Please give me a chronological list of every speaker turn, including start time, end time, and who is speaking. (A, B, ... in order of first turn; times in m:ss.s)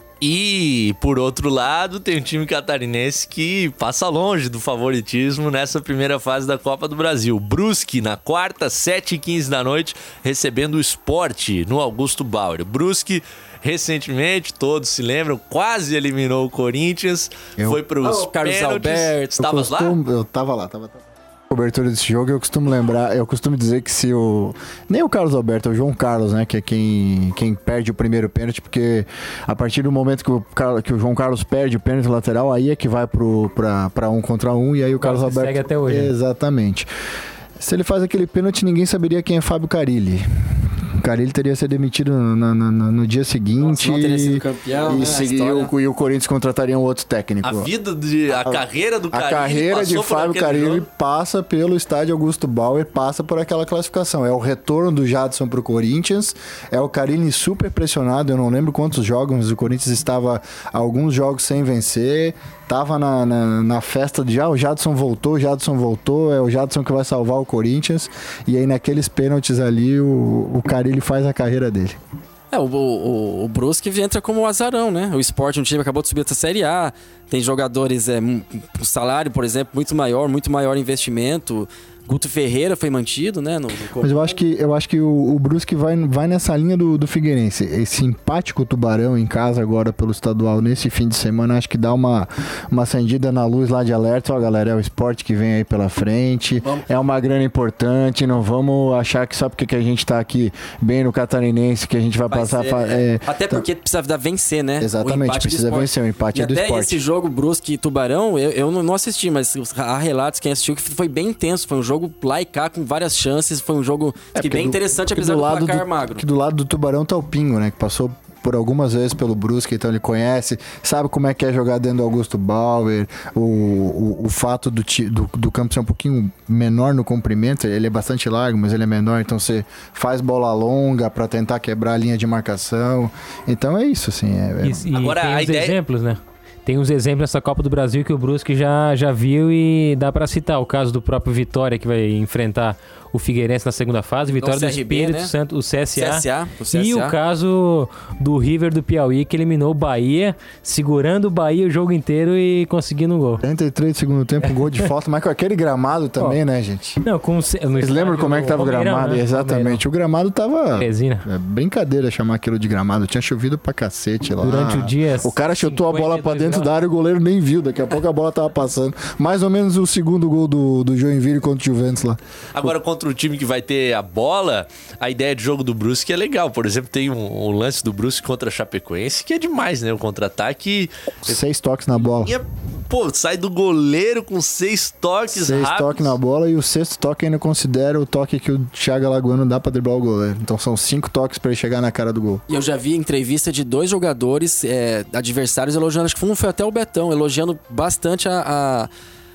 0:00.2-0:19.9 A
0:18.0-0:19.4 B
0:19.4-0:36.9 C
0:35.0-0:36.1 D
0:37.6-0:47.7 C
0:43.6-0:45.7 B
0:47.4-0:50.9 A
0:48.4-1:12.0 C
1:12.5-1:24.3 B
1:24.0-1:43.6 C
1:42.3-1:56.2 B
1:44.8-1:47.0 C
1:54.3-2:14.9 C
2:14.6-2:33.4 D
2:14.9-2:15.8 A
2:24.3-2:25.3 B
2:26.0-2:27.2 B
2:33.4-2:37.0 C
2:37.0-2:39.8 D
2:37.8-2:52.7 C
2:40.8-2:41.3 D
2:44.4-2:46.7 D
2:52.5-3:01.4 A
3:01.2-3:02.3 C
3:02.0-3:06.1 A
3:05.3-3:12.4 C
3:12.5-3:18.9 B